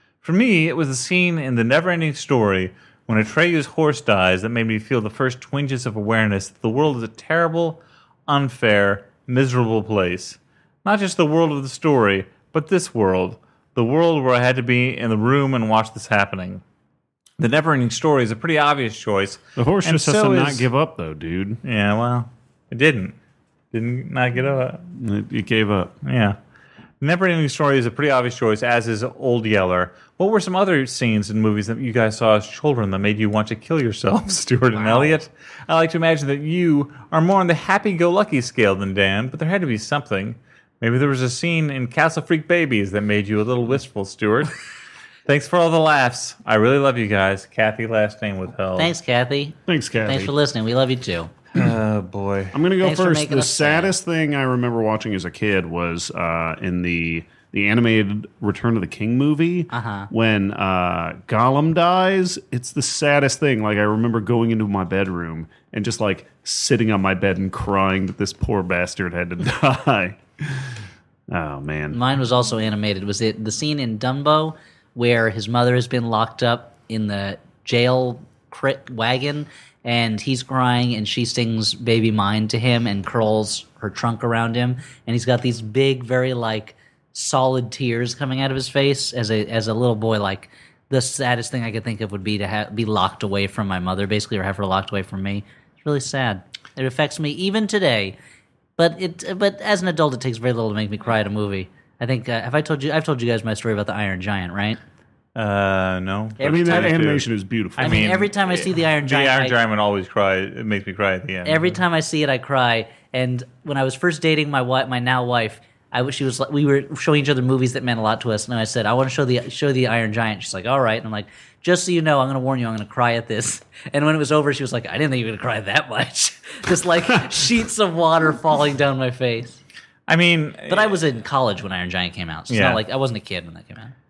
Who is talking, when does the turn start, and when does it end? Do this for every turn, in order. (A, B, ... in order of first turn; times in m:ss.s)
0:00.2-0:16.6 A
0:17.4-0:20.7 A
0:19.6-0:21.6 B
0:21.6-0:23.2 A
0:23.7-0:24.8 A
0:24.9-0:25.9 B
0:26.0-0:26.4 A
0:27.0-0:44.5 A
0:34.8-0:35.1 C
0:45.2-0:48.9 A
0:48.8-0:51.3 C
0:49.7-0:50.3 B
0:51.5-0:52.5 A
0:52.5-1:10.6 B
0:52.8-0:53.9 C
0:59.7-1:00.1 C
1:11.3-1:12.0 B
1:11.9-1:38.2 C
1:38.8-1:44.8 C
1:45.3-1:47.2 A
1:46.4-1:48.0 B
1:46.4-1:47.0 C
1:47.8-1:51.8 A
1:47.8-1:49.6 C
1:51.4-2:09.6 C
2:10.1-2:11.0 A
2:10.7-2:13.9 C
2:12.5-2:12.8 A